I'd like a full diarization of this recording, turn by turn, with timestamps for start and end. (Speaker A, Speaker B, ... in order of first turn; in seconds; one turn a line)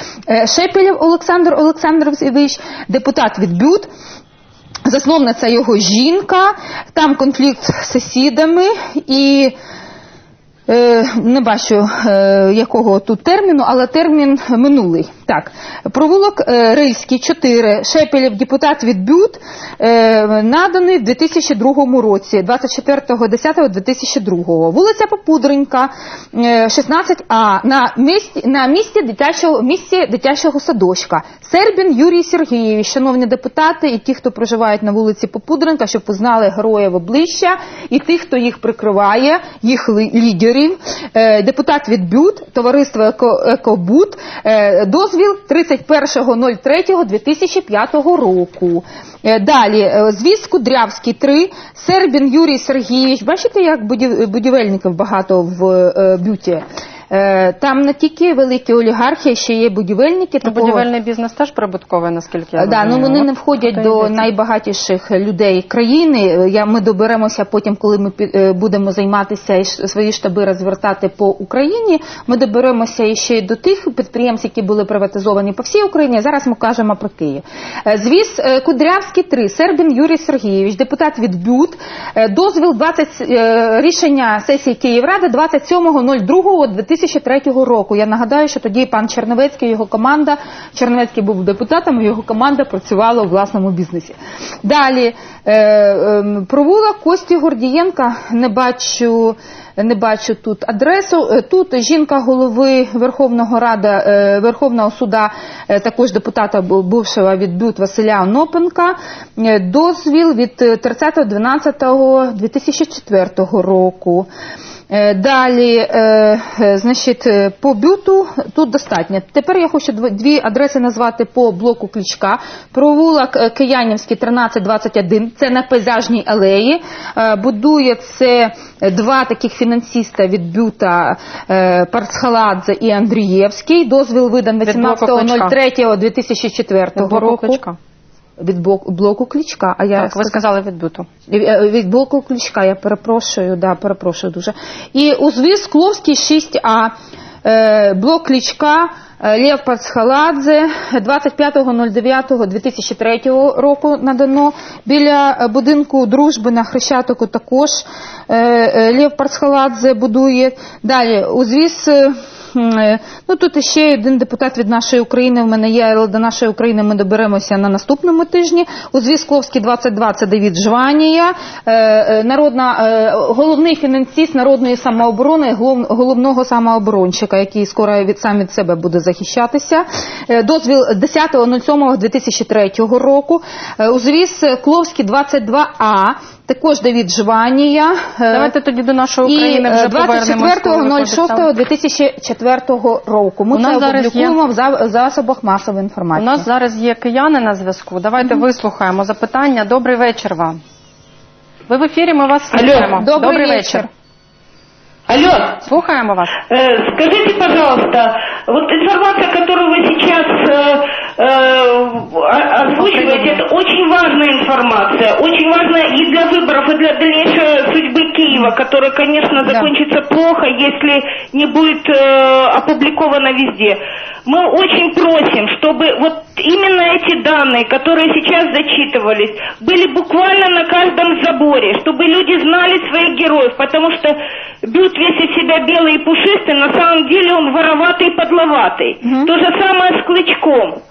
Speaker A: 0.3-3.9
Speaker A: 4.9-9.5
Speaker A: 10.7-60.9
Speaker B: 60.4-64.3
Speaker A: 62.6-114.3
Speaker A: 114.9-137.6
Speaker B: 134.7-135.6
Speaker B: 137.0-137.8
Speaker A: 138.4-140.4
Speaker B: 140.0-141.1
Speaker A: 141.3-146.9
Speaker A: 147.4-188.5
Speaker B: 188.3-191.5
Speaker A: 189.2-196.5
Speaker B: 193.5-194.4
Speaker B: 196.2-200.6
Speaker B: 201.7-203.9
Speaker C: 202.5-202.9
Speaker A: 202.9-203.9
Speaker C: 205.1-205.6
Speaker B: 205.6-206.4
Speaker C: 206.5-240.8
Speaker A: 212.8-213.4
Speaker A: 219.4-219.7
Speaker A: 239.0-239.3